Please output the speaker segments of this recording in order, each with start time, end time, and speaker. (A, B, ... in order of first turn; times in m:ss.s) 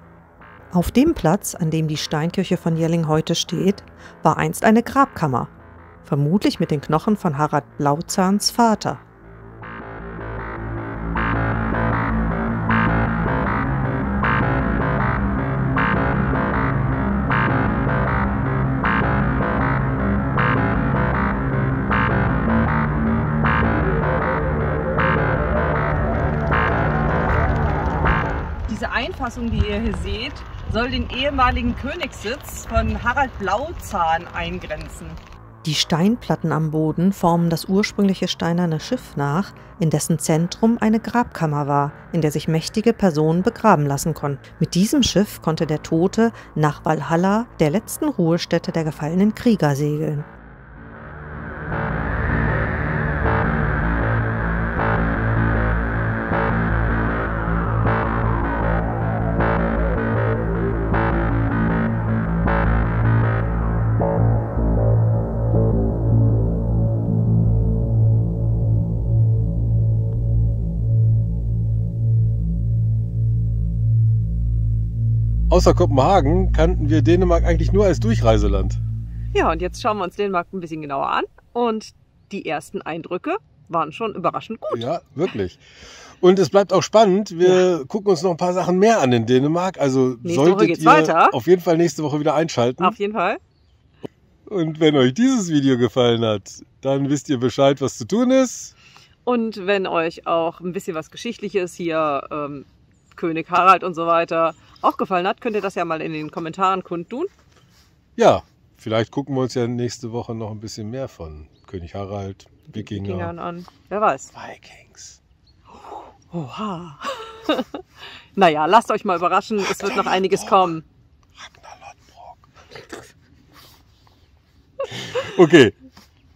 0:00.7-0:05.5 A
0:06.0-0:09.0 A
0:28.7-0:35.2 B
0:35.6-0:50.3 A
1:15.5-1:18.8 C
1:19.3-1:24.9 B
1:24.7-1:25.6 C
1:26.2-1:33.0 C
1:30.2-1:31.4 B
1:32.8-1:33.4 B
1:34.5-1:38.7 C
1:39.3-1:47.3 B
1:48.2-1:53.3 C
1:52.7-1:54.3 B
1:54.3-1:55.2 C
1:55.9-1:57.8 B
1:58.4-2:00.8 B
1:59.6-2:00.6 C
2:01.4-2:02.5 C
2:05.0-2:05.7 C